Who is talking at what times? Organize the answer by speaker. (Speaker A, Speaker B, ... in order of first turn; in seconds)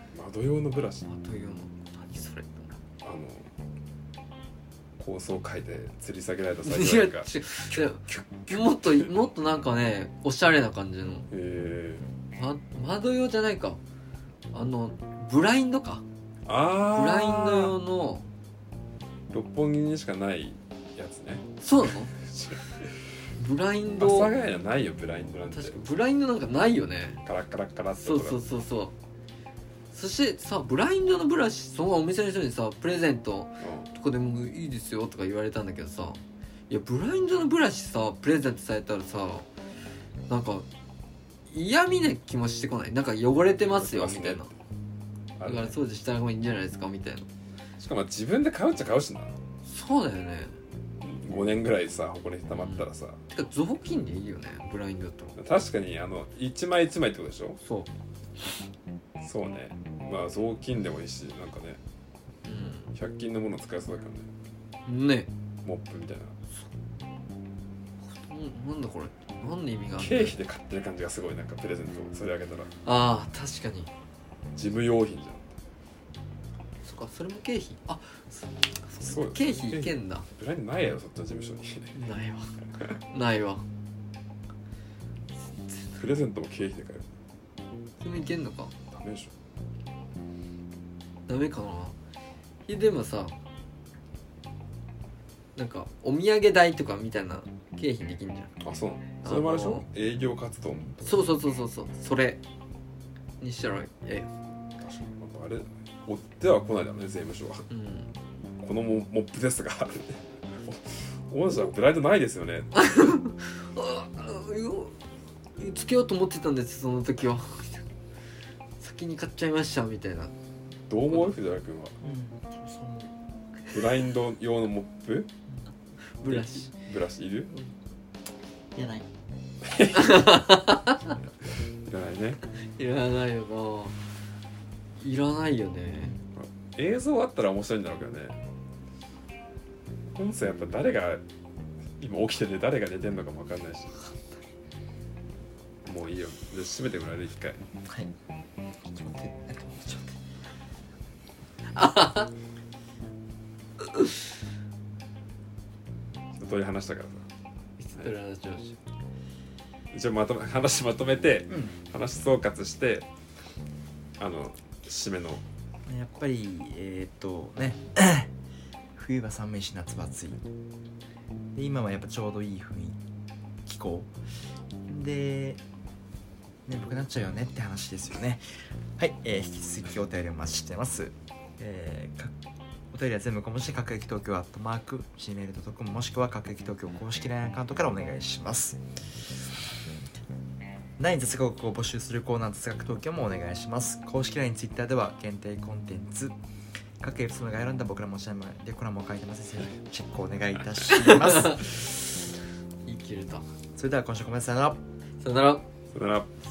Speaker A: 0.1-1.1, 3.0-3.5, 5.0-9.1, 11.3-12.1, 16.4-17.7, 19.3-21.5, 22.1-22.9, 24.0-25.9, 27.2-28.4, 33.6-33.9, 43.6-44.6, 45.4-45.8, 47.8-49.3, 51.0-53.2, 55.4-57.6, 59.2-61.8, 62.9-64.3, 65.6-66.4, 70.0-72.7, 74.5-75.5, 79.0-82.0, 85.9-87.1, 88.9-89.3, 98.6-101.2, 104.8-107.7, 108.6-112.7, 120.9-122.0, 123.7-125.3, 126.3-127.5, 129.6-130.4, 131.8-132.4, 136.3-138.4, 140.1-141.2, 142.0-144.0, 145.8-147.6, 156.3-157.3, 159.9-163.1, 164.2-165.4, 205.9-206.3
Speaker B: 1.1-2.8, 6.6-11.3, 12.3-13.8, 14.5-16.0, 16.9-18.3, 21.6-22.1, 23.4-24.3, 25.5-27.2, 28.0-28.9, 29.9-39.5, 40.3-40.7, 41.5-44.5, 45.4-47.3, 49.6-50.6, 52.5-55.4, 57.6-58.5, 62.4-62.9, 64.8-65.3, 68.0-70.3, 72.8-73.9, 76.8-80.2, 81.9-83.6, 88.0-88.7, 91.3-92.0, 92.7-93.3, 95.5-98.6, 99.2-99.9, 101.0-102.4, 103.4-104.3, 107.7-108.1, 112.7-115.0, 115.6-117.8, 118.8-120.3, 126.2-126.7, 129.9-131.2, 132.8-134.0, 135.0-136.1, 151.7-152.3, 153.8-154.2, 157.8-158.8, 200.9-201.8, 202.8-203.4, 205.2-205.6
Speaker C: 122.0-123.1, 128.7-129.1, 147.9-148.1, 148.9-150.1, 165.9-168.3, 168.9-170.4, 171.5-173.0, 173.7-174.1, 174.8-175.6, 176.7-178.4, 179.0-182.3, 182.9-188.8, 191.0-196.3, 197.0-201.7, 203.8-204.8